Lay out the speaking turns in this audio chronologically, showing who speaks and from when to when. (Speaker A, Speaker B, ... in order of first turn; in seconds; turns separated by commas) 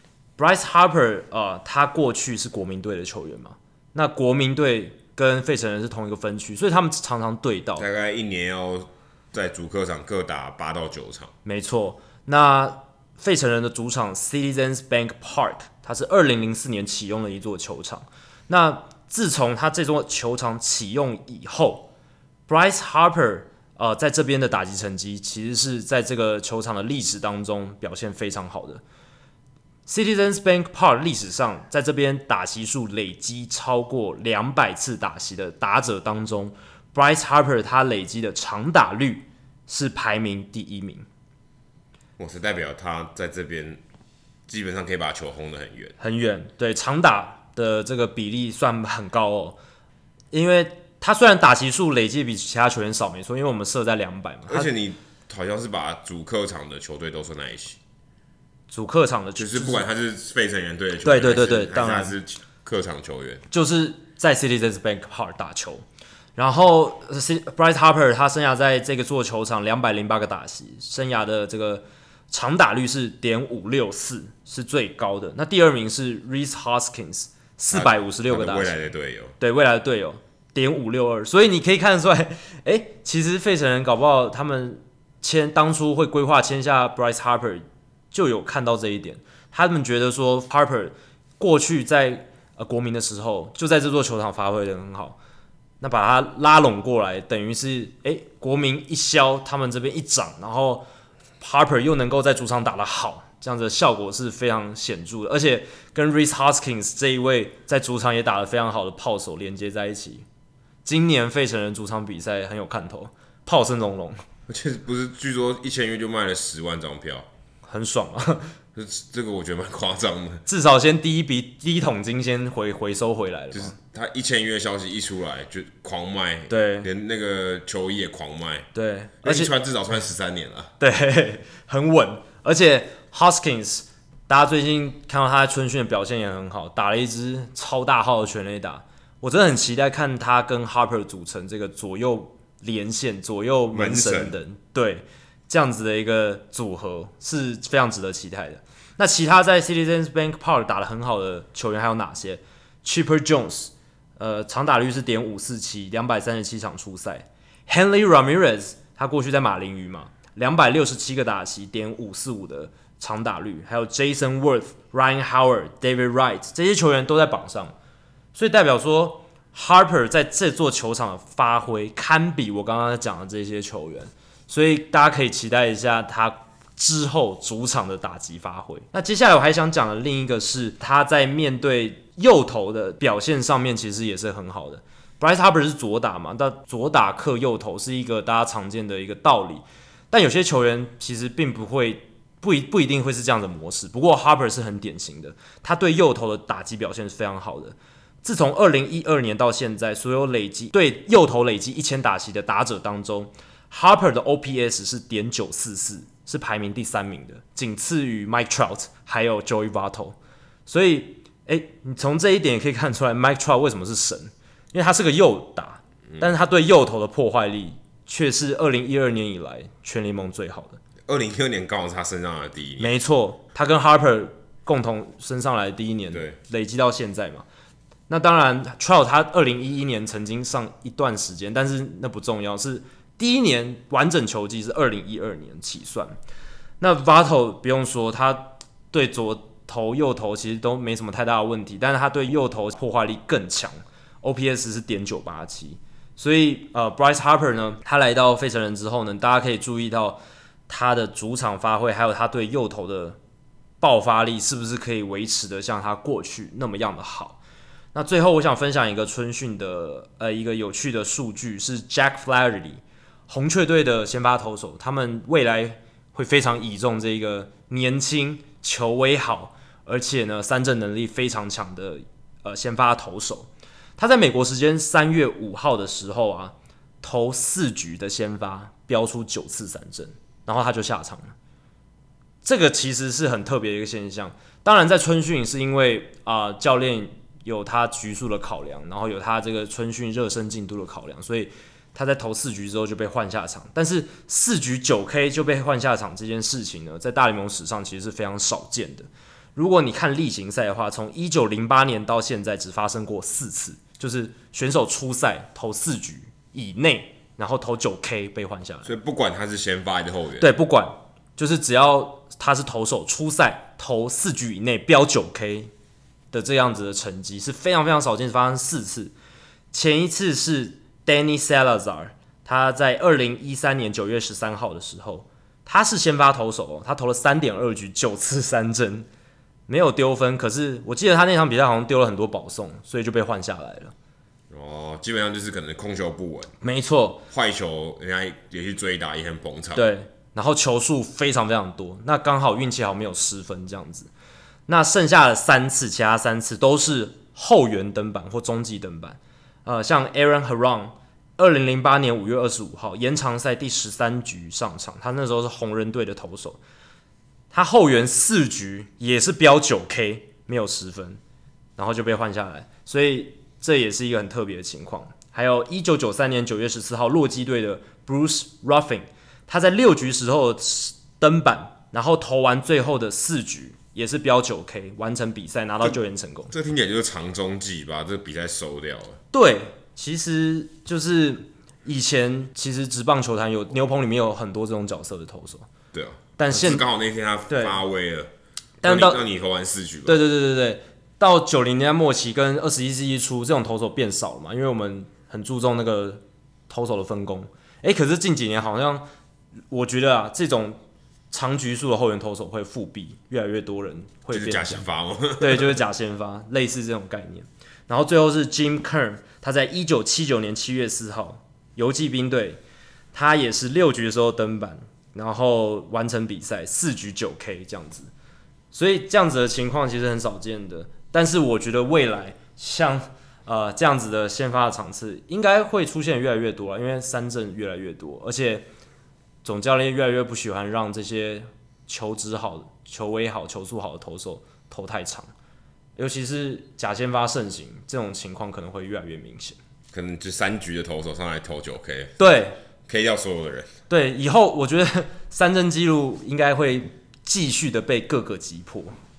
Speaker A: 0.4-7.9, Speaker B: 7.8-11.3, Speaker A: 11.4-21.9, Speaker A: 22.5-28.8, Speaker A: 29.9-41.0, Speaker B: 42.2-43.8, Speaker B: 44.5-46.0, Speaker A: 46.0-49.6, Speaker A: 50.3-54.7, Speaker B: 54.5-57.8, Speaker A: 58.7-59.9, Speaker B: 59.4-63.4, Speaker A: 61.0-62.1, Speaker A: 63.5-65.8, Speaker A: 66.3-78.8, Speaker B: 77.7-79.4, Speaker A: 79.4-95.2, Speaker A: 95.8-100.8, Speaker A: 101.4-110.2, Speaker A: 110.8-114.2, Speaker B: 114.5-117.3, Speaker A: 117.7-118.5, Speaker B: 118.7-120.5, Speaker A: 120.5-123.7, Speaker B: 123.5-128.7, Speaker A: 126.5-126.9, Speaker A: 128.7-129.5, Speaker B: 129.2-130.7, Speaker A: 130.8-167.7, Speaker B: 143.7-144.4, Speaker A: 168.3-220.8, Speaker B: 216.1-216.4, Speaker B: 221.1-222.9, Speaker A: 222.8-227.4, Speaker B: 226.1-226.4, Speaker A: 228.1-236.2, Speaker A: 236.8-253.2, Speaker A: 253.8-257.4, Speaker A: 257.9-281.3, Speaker A: 282.4-308.9, Speaker B: 308.8-310.5, Speaker A: 310.4-315.7, Speaker A: 316.3-319.1, Speaker A: 319.7-329.1, Speaker A: 329.7-333.9, Speaker B: 334.5-336.6, Speaker A: 336.6-337.2, Speaker B: 337.3-339.9, Speaker A: 339.7-344.1, Speaker A: 344.7-356.6, Speaker A: 357.5-361.2, Speaker A: 361.8-376.5, Speaker B: 376.5-379.2, Speaker A: 379.3-385.7, Speaker B: 385.9-388.3, Speaker A: 386.4-386.8, Speaker A: 387.5-387.8, Speaker A: 388.8-389.2, Speaker B: 388.8-390.2, Speaker A: 390.1-399.1, Speaker A: 399.7-400.8, Speaker A: 401.3-404.8, Speaker B: 404.3-405.8, Speaker A: 405.4-412.6, Speaker A: 413.1-418.1, Speaker A: 418.7-428.6, Speaker A: 429.4-435.3, Speaker A: 436.0-439.6, Speaker B: 439.9-443.7, Speaker A: 442.2-442.6, Speaker A: 443.9-448.9